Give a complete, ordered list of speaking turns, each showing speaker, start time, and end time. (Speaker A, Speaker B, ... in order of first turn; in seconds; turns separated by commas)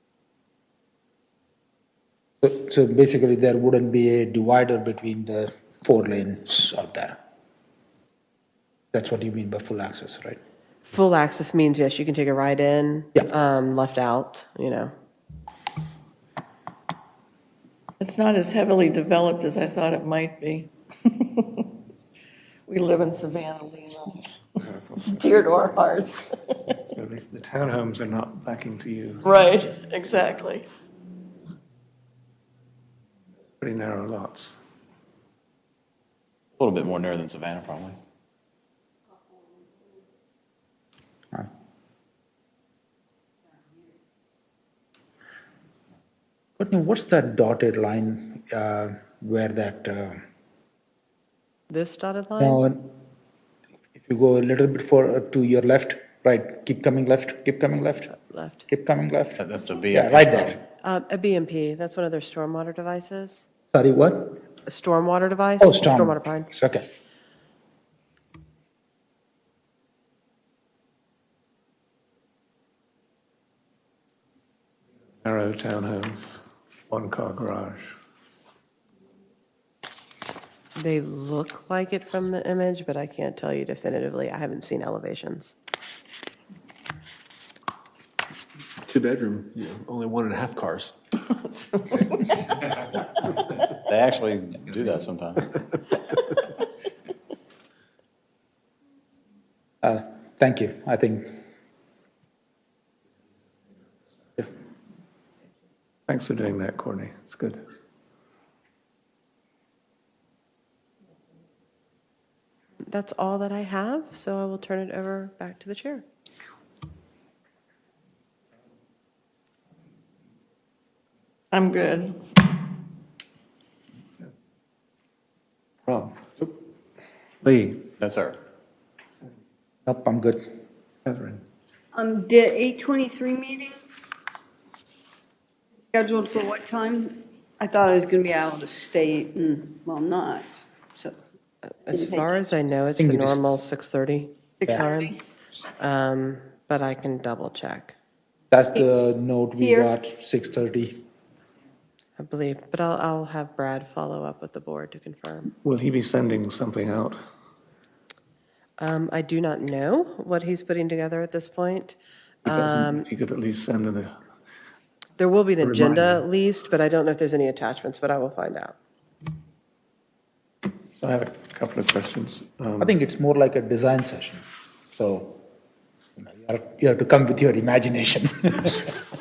Speaker A: 2.4-7.2, Speaker A: 8.9-10.4, Speaker B: 10.8-14.9, Speaker C: 18.0-20.7, Speaker C: 22.7-24.2, Speaker D: 24.7-25.6, Speaker C: 25.2-26.1, Speaker D: 26.9-29.5, Speaker C: 29.2-30.6, Speaker D: 33.6-34.6, Speaker E: 36.6-38.0, Speaker A: 46.6-50.2, Speaker B: 51.7-52.6, Speaker A: 52.4-52.9, Speaker A: 54.0-58.1, Speaker B: 58.1-58.6, Speaker A: 58.7-60.6, Speaker E: 59.4-60.5, Speaker B: 60.8-63.5, Speaker A: 63.7-64.4, Speaker B: 64.7-66.5, Speaker A: 65.6-66.8, Speaker D: 75.2-77.9, Speaker B: 80.8-85.5, Speaker F: 88.9-90.9, Speaker E: 93.8-95.5, Speaker A: 99.8-101.3, Speaker D: 106.1-107.6, Speaker B: 112.9-116.0, Speaker C: 121.5-122.2, Speaker D: 125.9-126.5, Speaker D: 127.4-127.9, Speaker E: 128.0-128.4, Speaker A: 129.8-130.5, Speaker D: 131.0-131.4, Speaker G: 131.9-133.7, Speaker G: 135.9-141.2, Speaker B: 141.7-145.2, Speaker G: 141.9-142.4, Speaker A: 143.0-143.6, Speaker G: 144.6-145.2, Speaker B: 145.8-147.9, Speaker A: 148.5-151.0, Speaker G: 149.6-149.9, Speaker B: 152.2-155.5, Speaker D: 155.6-157.2, Speaker B: 158.8-163.1, Speaker D: 162.4-164.1, Speaker B: 165.2-168.8, Speaker D: 165.6-166.2, Speaker D: 170.9-172.9, Speaker A: 172.8-175.4, Speaker A: 176.2-178.9